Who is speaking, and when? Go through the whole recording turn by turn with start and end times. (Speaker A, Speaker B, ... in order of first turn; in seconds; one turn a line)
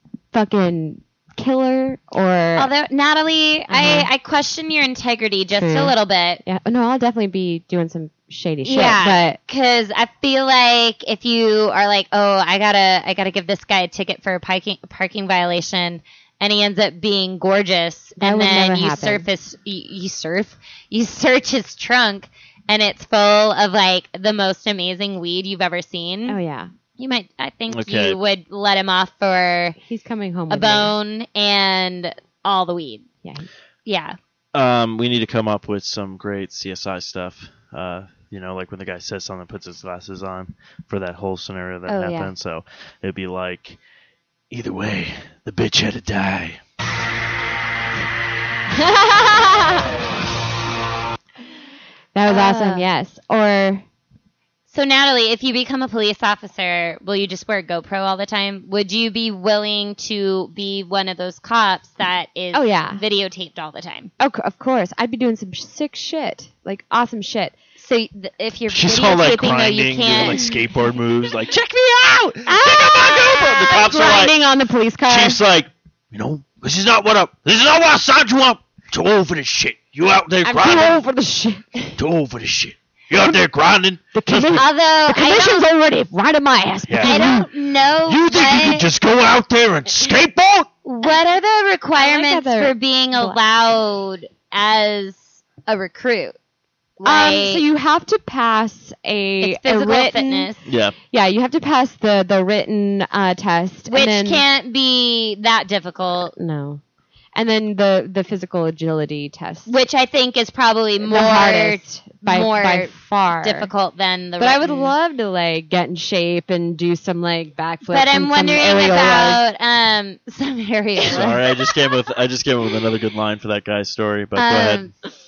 Speaker A: 0.3-2.7
Speaker B: 2.5-6.4
Speaker A: 3.7-4.1
Speaker A: 5.5-5.9
Speaker A: 6.4-9.4
Speaker B: 8.6-26.4
Speaker A: 18.2-19.2
Speaker A: 26.3-26.7
Speaker B: 27.0-29.8
Speaker C: 27.7-28.2
Speaker A: 29.8-30.9
Speaker B: 30.5-33.0
Speaker B: 33.9-34.2
Speaker C: 34.5-43.8
Speaker B: 41.9-42.3
Speaker C: 44.5-46.6
Speaker A: 48.7-49.8
Speaker A: 52.1-53.8
Speaker B: 52.3-52.9
Speaker B: 54.7-64.1
Speaker A: 62.5-63.0
Speaker A: 64.2-67.5
Speaker B: 67.8-70.5
Speaker C: 68.7-74.3
Speaker A: 70.2-70.6
Speaker A: 72.5-75.4
Speaker C: 75.1-81.0
Speaker A: 80.4-82.0
Speaker C: 82.0-84.6
Speaker A: 84.1-87.5
Speaker B: 84.5-85.6
Speaker C: 86.9-87.5
Speaker B: 87.0-88.9
Speaker C: 88.0-90.7
Speaker B: 90.8-96.3
Speaker A: 92.0-93.4
Speaker B: 97.0-97.6
Speaker A: 97.0-100.5
Speaker B: 99.4-100.6
Speaker C: 100.7-101.0
Speaker A: 101.1-104.4
Speaker B: 103.9-106.3
Speaker A: 106.3-106.8
Speaker A: 107.3-109.7
Speaker B: 109.7-114.9
Speaker A: 111.0-113.7
Speaker A: 114.4-119.4
Speaker B: 117.9-121.4
Speaker C: 121.1-124.9
Speaker B: 124.3-124.9